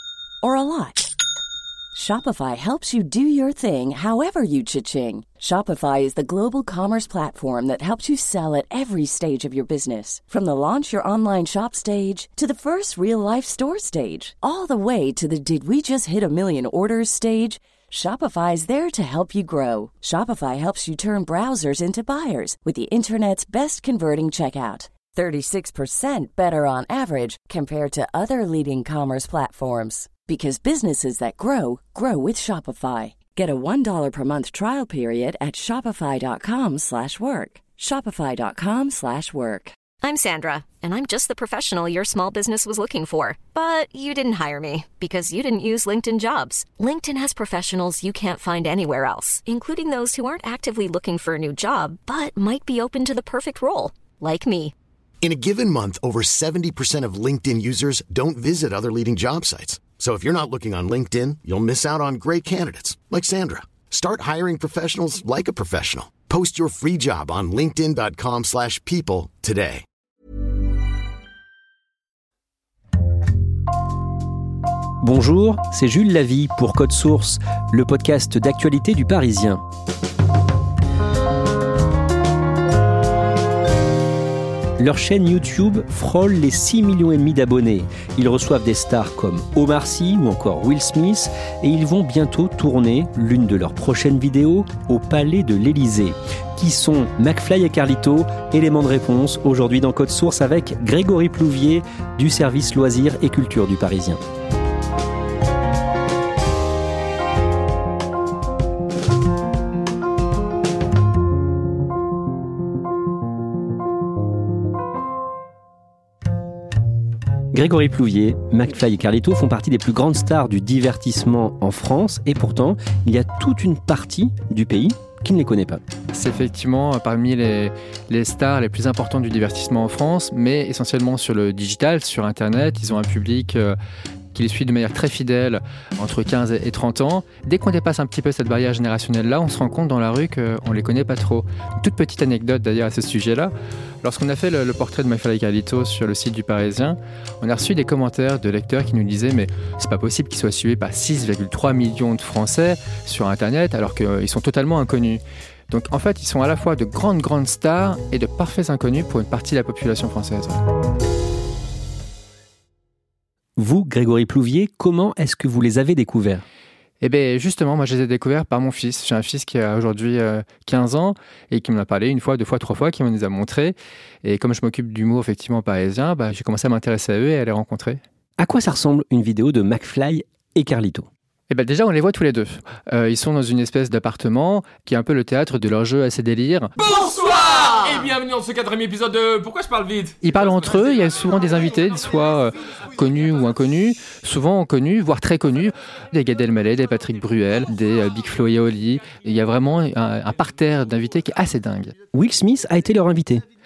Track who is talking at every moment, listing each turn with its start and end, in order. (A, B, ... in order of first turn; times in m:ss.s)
0:00.4-0:01.1 A
0:01.9-0:39.8 A
0:40.0-0:54.7 B
0:55.2-1:09.8 C
1:15.0-1:19.6 D
1:24.8-1:44.2 D
1:57.5-2:05.8 D
2:06.1-2:13.8 E
2:14.3-2:23.5 E
2:24.0-2:40.6 E
2:43.6-2:46.4 D
2:47.0-2:58.0 E
2:58.4-3:01.1 D
3:01.5-3:06.7 E
3:06.8-3:10.2 F
3:10.2-3:21.9 E
3:22.1-3:23.4 D